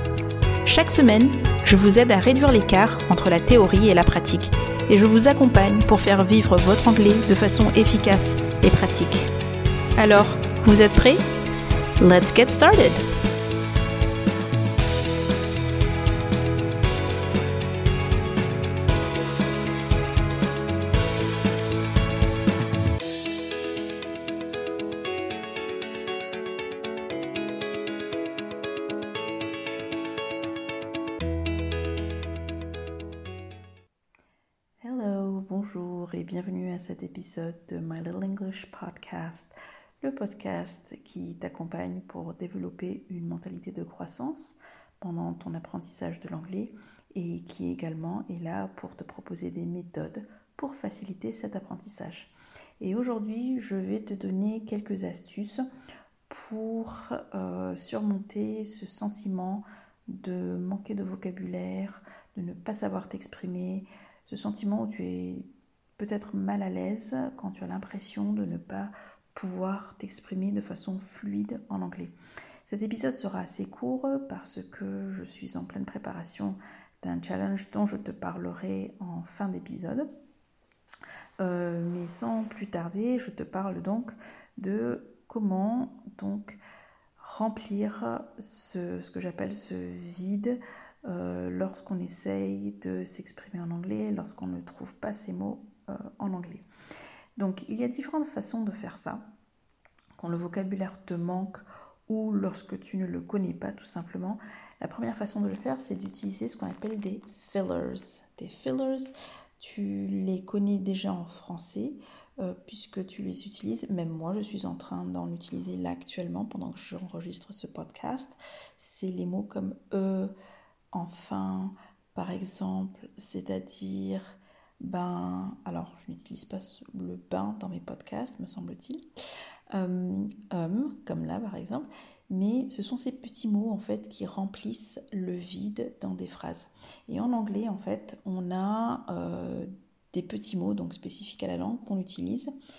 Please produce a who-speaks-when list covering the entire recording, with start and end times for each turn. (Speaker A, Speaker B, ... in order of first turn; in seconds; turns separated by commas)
Speaker A: 0.6-9.3, Speaker A: 10.0-11.2, Speaker A: 12.0-13.1, Speaker A: 34.8-55.7, Speaker A: 56.3-72.1, Speaker A: 72.6-80.1, Speaker A: 81.4-86.6, Speaker A: 87.2-96.6, Speaker A: 97.4-99.3, Speaker A: 100.1-120.3, Speaker A: 120.9-129.0, Speaker A: 129.7-142.5